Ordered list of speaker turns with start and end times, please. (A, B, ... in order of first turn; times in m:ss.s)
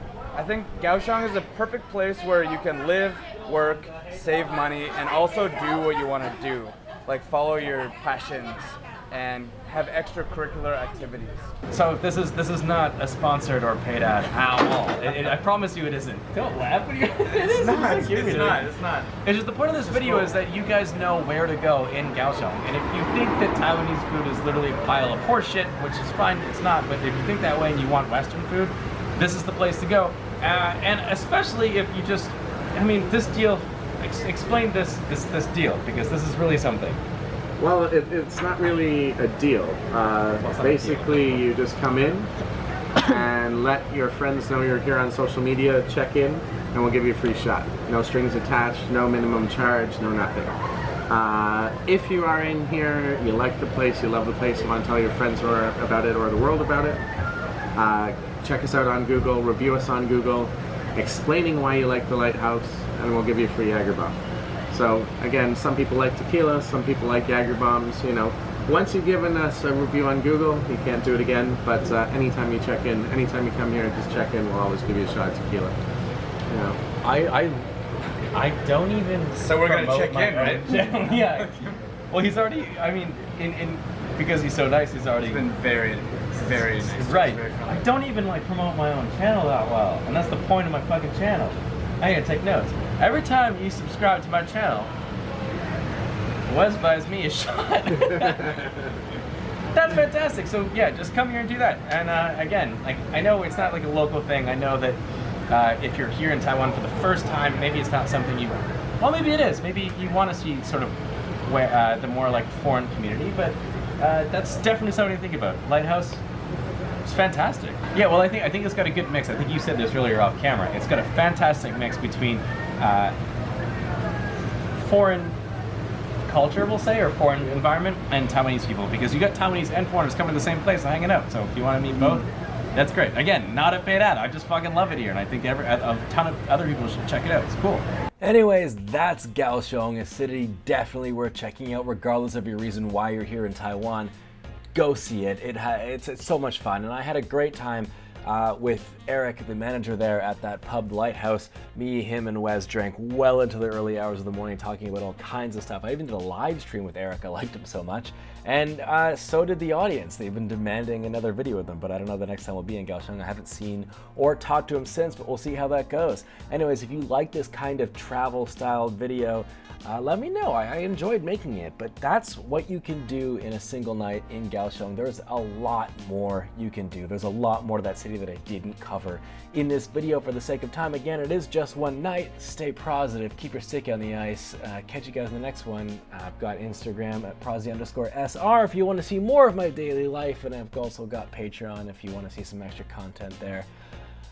0:00.3-0:11.5 A
0:11.7-0:18.7 B
0:17.5-0:19.1 A
0:19.2-0:37.0 B
0:19.8-0:20.4 A
0:37.6-0:42.3 C
0:40.4-0:41.5 B
0:43.2-0:50.5 C
0:51.1-0:57.0 C
0:57.8-1:04.2 C
1:04.7-1:15.8 C
1:16.5-1:16.8 C
1:17.0-1:17.7 B
1:18.3-1:21.5 B
1:19.4-1:21.8 A
1:22.1-1:25.5 B
1:25.2-1:27.8 A
1:26.4-1:34.9 B
1:36.5-1:38.9 B
1:39.7-1:51.0 B
1:51.5-1:56.2 B
1:57.0-2:03.2 B
2:04.8-2:05.4 B
2:06.3-2:24.1 B
2:24.7-3:13.7 B